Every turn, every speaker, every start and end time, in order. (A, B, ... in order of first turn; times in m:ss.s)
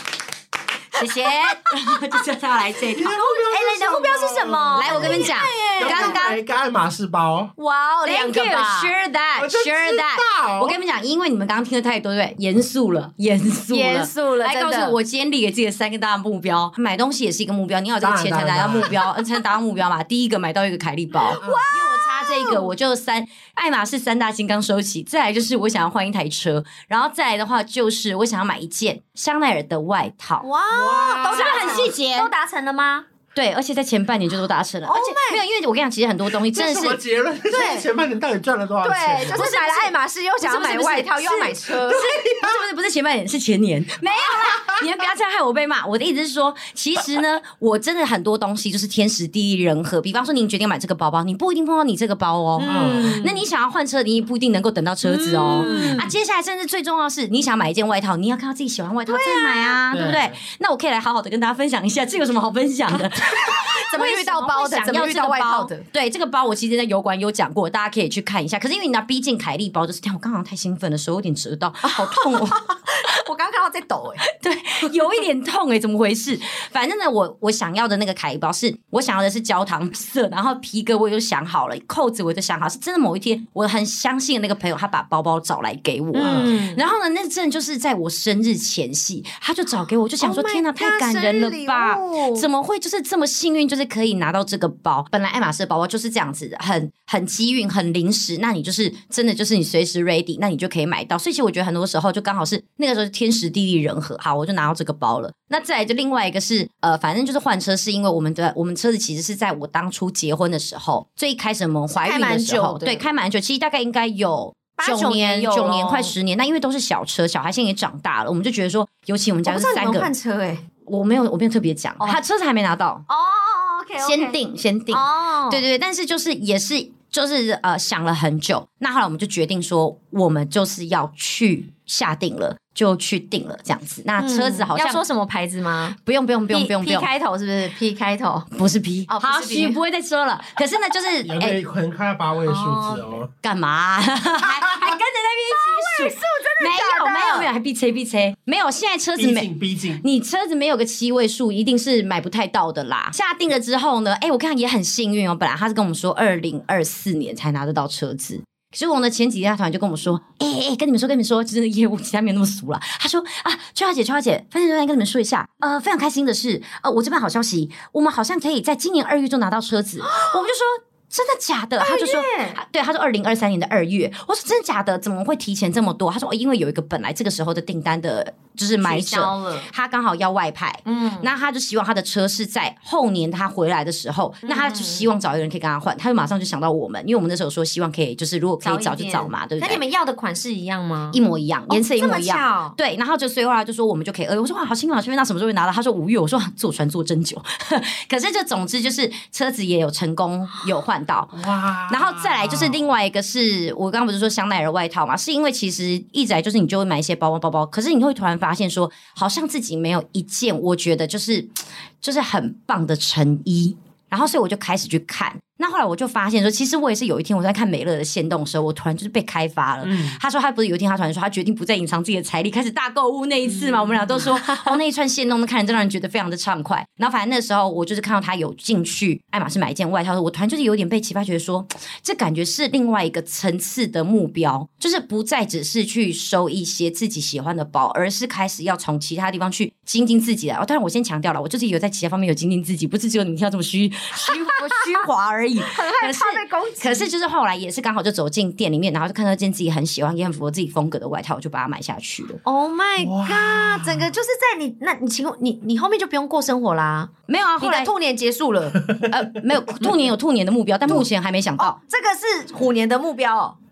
0:00.9-0:03.1 A
0:01.0-0:02.2 B
0:02.9-0:07.5 C
0:03.0-0:06.2 B
0:04.8-0:06.4 A
0:07.6-0:08.9 B
0:08.0-0:30.5 A
0:09.4-0:10.8 C
0:13.7-0:15.0 B
0:18.0-0:19.0 C
0:21.2-0:22.7 B
0:21.3-0:21.6 C
0:30.4-0:33.1 B
0:30.7-0:31.9 C
0:31.2-0:32.3 A
0:33.3-0:37.0 A
0:34.9-0:35.4 B
0:36.3-0:39.5 C
0:37.5-0:37.9 B
0:38.8-0:42.1 B
0:39.3-1:12.6 A
0:41.9-0:42.6 C
0:44.4-0:44.8 C
0:52.6-0:53.4 B
0:52.7-0:53.2 C
0:55.0-0:56.1 B
0:55.5-0:56.1 C
0:59.1-0:59.8 B
0:59.9-1:00.4 C
1:02.9-1:05.9 B
1:11.9-1:14.2 B
1:14.2-2:00.1 A
1:26.1-1:26.8 B
1:26.2-1:26.5 C
1:30.2-1:32.4 B
1:51.9-1:53.0 B
1:54.8-1:56.2 B
1:59.5-2:00.6 B
2:00.8-2:03.0 A
2:03.1-2:04.4 B
2:04.0-2:15.0 A
2:04.9-2:05.6 B
2:14.2-2:16.0 B
2:16.0-2:17.1 A
2:16.5-2:18.5 B
2:18.5-2:21.6 A
2:19.1-2:19.8 B
2:21.2-2:23.3 C
2:22.5-2:23.1 B
2:23.4-2:29.5 A
2:24.4-2:25.0 C
2:25.5-2:27.5 B
2:29.2-2:30.0 C
2:30.0-3:09.8 A
2:50.1-2:50.4 B
2:51.8-2:52.6 B
2:58.8-2:59.7 B
3:00.9-3:01.3 B
3:04.4-3:05.1 B
3:08.6-3:12.8 B
3:11.1-4:12.4 A
3:21.3-3:22.9 C
3:39.8-3:40.2 C
3:44.2-3:44.8 B
4:04.2-4:05.0 B
4:05.7-4:07.1 B
4:12.4-4:18.8 B
4:13.0-4:14.1 C
4:17.3-4:17.9 A
4:19.1-4:21.8 A
4:21.6-4:23.6 B